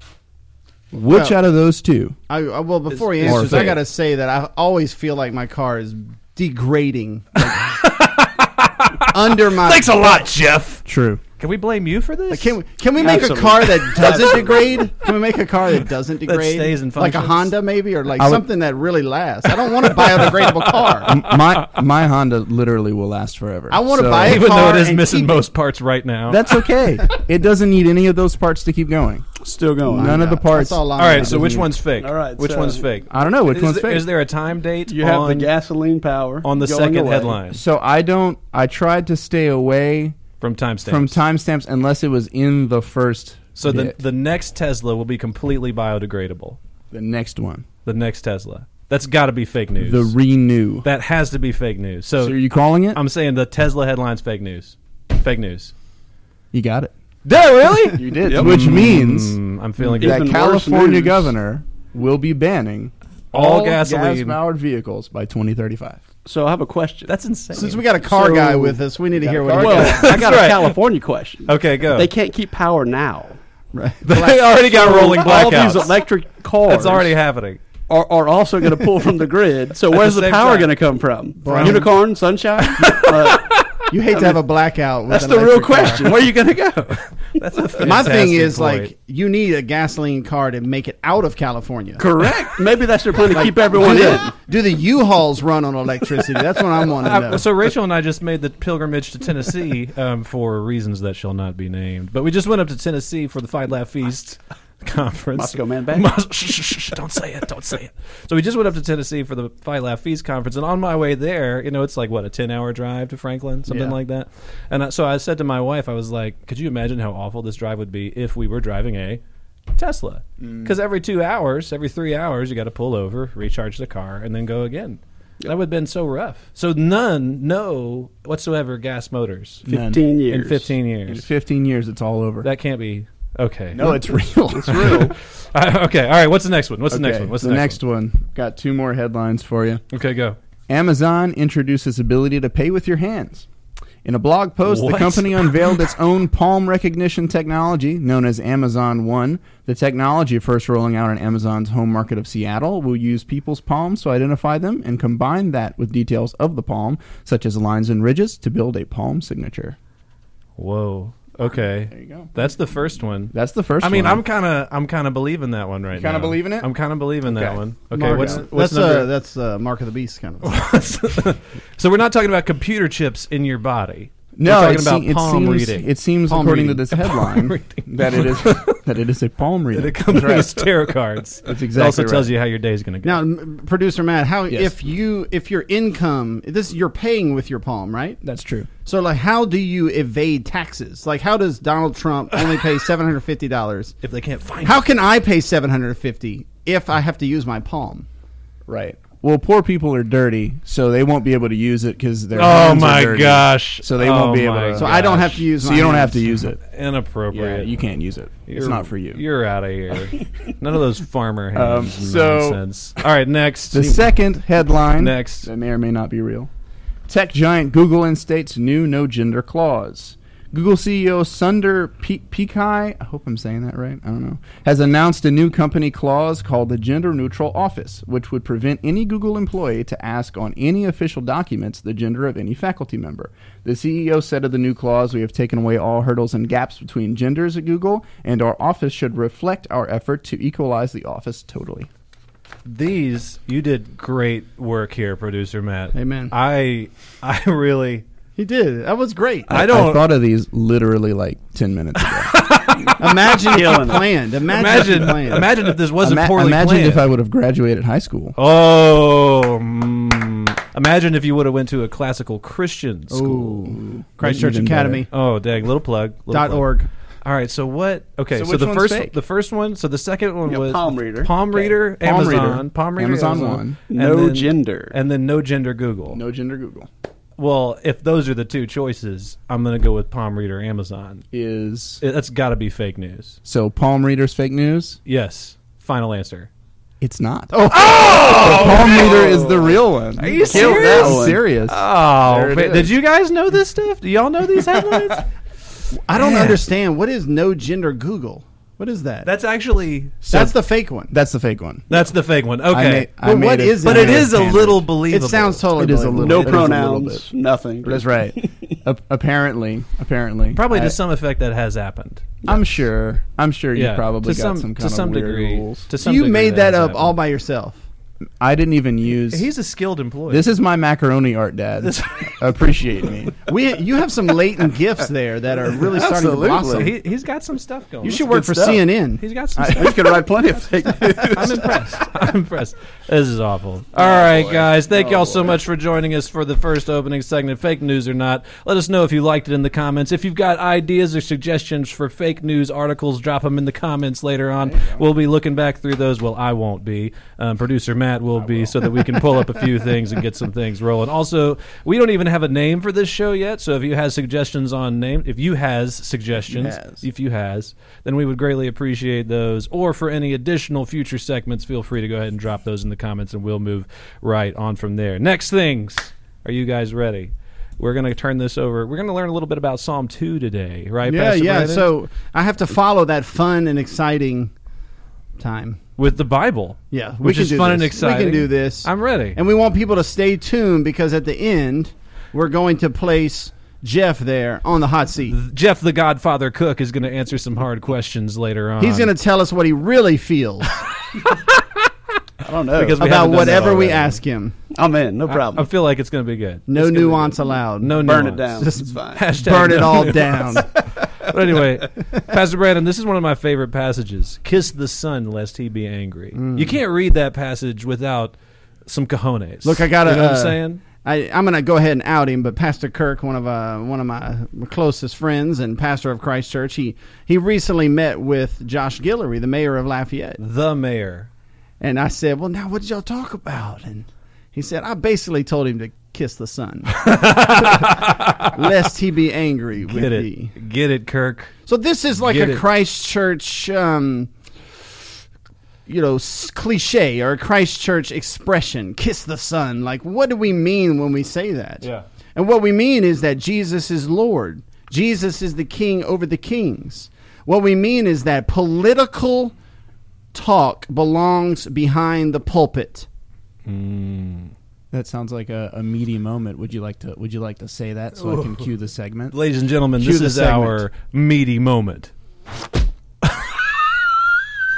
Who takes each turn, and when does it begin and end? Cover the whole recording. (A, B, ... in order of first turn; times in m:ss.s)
0:00.9-0:02.2 A
0:01.1-0:01.4 B
0:02.3-0:07.7 B
0:02.9-0:03.7 C
0:03.2-0:03.8 A
0:07.4-0:10.8 C
0:09.1-0:10.2 B
0:10.8-0:11.2 A
0:11.4-0:12.6 C
0:12.3-0:21.2 B
0:13.0-0:14.8 D
0:16.2-0:17.5 C
0:18.2-0:18.5 A
0:19.6-0:21.7 C
0:21.1-0:24.5 A
0:23.7-0:25.5 B
0:24.2-0:26.6 C
0:26.3-0:29.3 A
0:29.4-0:30.2 D
0:29.8-0:31.6 B
0:29.9-0:31.7 A
0:31.0-0:35.5 C
0:32.0-0:32.8 D
0:33.1-0:34.1 A
0:34.9-0:37.4 D
0:36.4-0:37.6 C
0:37.5-0:40.2 A
0:40.4-0:41.2 C
0:40.8-0:44.0 A
0:43.6-0:46.6 C
0:46.9-0:47.6 A
0:47.8-0:50.1 C
0:49.8-0:50.9 A
0:50.8-0:52.4 C
0:52.2-0:53.0 A
0:52.9-0:55.7 C
0:56.5-0:56.9 A
0:57.2-1:00.2 C
0:57.9-1:06.0 A
0:58.2-0:58.6 D
1:00.0-1:01.3 D
1:03.3-1:04.4 C
1:06.2-1:07.1 D
1:07.1-1:07.8 C
1:07.5-1:10.2 B
1:08.0-1:13.4 D
1:09.2-1:10.1 A
1:09.9-1:10.8 C
1:11.4-1:12.1 C
1:13.7-1:14.5 B
1:14.0-1:16.0 C
1:14.6-1:17.1 D
1:16.6-1:17.6 C
1:17.9-1:23.6 D
1:19.9-1:20.7 C
1:21.4-1:21.9 B
1:21.4-1:21.9 C
1:22.6-1:23.9 C
1:23.9-1:26.2 B
1:25.1-1:26.9 D
1:26.0-1:28.9 C
1:27.8-1:32.0 B
1:32.0-1:34.3 D
1:33.3-1:37.4 B
1:36.9-1:59.2 C
1:45.3-1:46.1 D
1:59.7-2:09.6 C
2:00.4-2:00.7 A
2:09.6-2:10.0 A
2:09.7-2:10.7 D
2:10.3-2:11.2 C
2:11.1-2:12.5 A
2:12.4-2:14.0 C
2:13.8-2:15.1 A
2:13.8-2:15.1 D
2:14.7-2:17.8 C
2:16.9-2:19.8 A
2:19.9-2:20.4 C
2:20.7-2:23.5 A
2:24.0-2:39.8 A
2:24.6-2:25.8 C
2:40.6-2:49.1 C
2:41.5-2:42.3 A
2:43.3-2:44.2 A
2:45.9-2:46.7 A
2:47.2-2:48.4 A
2:47.9-2:50.6 B
2:50.4-2:55.9 C
2:54.4-3:00.7 A
2:56.3-2:56.8 B
2:56.9-2:58.8 C
2:59.7-3:03.2 C
3:01.4-3:02.3 A
3:03.0-3:08.2 B
3:08.2-3:08.7 A
3:08.8-3:13.9 B
3:14.0-3:14.8 C
3:14.6-3:18.0 B
3:18.7-3:25.0 A
3:22.3-3:25.4 C
3:24.8-3:26.2 B
3:25.5-3:26.6 A
3:26.6-3:27.7 C
3:27.3-3:29.2 A
3:28.5-3:34.1 C
3:31.5-3:32.6 A
3:33.7-3:36.5 A
3:34.9-3:35.5 C
3:37.1-4:01.9 A
4:02.6-4:08.0 C
4:05.9-4:06.3 B
4:08.4-4:09.5 B
4:09.5-4:10.0 C
4:09.5-4:12.4 A
4:12.0-4:13.8 C
4:13.0-4:15.5 B
4:13.4-4:14.0 D
4:14.5-4:17.0 C
4:16.0-4:18.4 A
4:18.4-4:23.4 C
4:23.1-4:25.1 B
4:23.5-4:25.0 A
4:25.1-4:26.6 C
4:26.3-4:26.9 B
4:27.2-4:36.2 C
4:28.3-4:29.2 A
4:30.4-4:31.3 D
4:32.0-4:33.8 A
4:33.9-4:34.9 D
4:36.1-4:36.9 A
4:37.4-4:41.2 C
4:41.3-4:42.0 A
4:42.0-4:43.4 C
4:43.4-4:45.0 A
4:45.0-4:46.5 C
4:47.0-4:52.9 A
4:47.5-4:48.8 B
4:47.7-4:49.5 C
4:49.1-4:49.8 D
4:50.2-4:55.3 C
4:50.4-4:51.4 D
4:54.6-4:55.2 A
4:56.0-4:59.3 B
4:56.2-4:56.6 A
4:59.2-5:00.2 C
5:00.2-5:00.5 A
5:00.3-5:01.1 B
5:01.1-5:02.0 A
5:01.9-5:03.1 C
5:02.7-5:04.8 A
5:03.2-5:06.8 B
5:03.8-5:05.7 C
5:05.7-5:07.3 A
5:06.2-5:08.5 D
5:07.8-5:11.0 A
5:10.5-5:12.2 C
5:12.4-5:15.9 A
5:13.7-5:17.1 C
5:16.0-5:17.8 B
5:18.4-5:19.5 A
5:19.3-5:20.5 C
5:20.3-5:23.4 A
5:21.8-5:22.4 C
5:23.4-5:26.9 B
5:25.9-5:26.9 D
5:26.1-5:26.7 A
5:26.7-5:28.4 C
5:28.0-5:29.2 B
5:28.2-5:28.8 D
5:29.2-5:30.0 C
5:29.6-5:31.6 A
5:29.7-5:31.7 D
5:31.3-6:11.9 C
5:34.2-5:35.6 D
5:44.7-5:45.0 A
5:48.4-5:49.4 A
5:56.5-5:56.8 A
6:11.0-6:14.5 B
6:15.4-6:15.8 B
6:16.0-6:19.4 C
6:16.9-6:25.4 B
6:25.2-6:29.1 C
6:28.8-6:30.8 B
6:32.4-6:33.6 D
6:32.7-6:34.2 C
6:33.0-6:34.6 B
6:34.7-6:35.7 D
6:35.3-6:50.8 C
6:36.7-6:38.0 B
6:37.9-6:39.2 D
6:38.6-6:40.8 B
6:46.3-6:46.8 B
6:49.6-7:00.4 B
7:00.4-7:01.3 C
7:01.8-7:10.5 B
7:06.9-7:08.5 C
7:09.8-7:11.5 C
7:11.7-7:14.3 B
7:12.1-7:12.6 C
7:15.9-7:29.5 B
7:30.3-7:33.1 B
7:33.6-7:34.5 C
7:34.9-7:39.3 A
7:38.2-7:38.6 C
7:39.3-7:42.1 C
7:40.0-7:40.5 A
7:40.0-7:40.8 B
7:43.2-7:44.2 C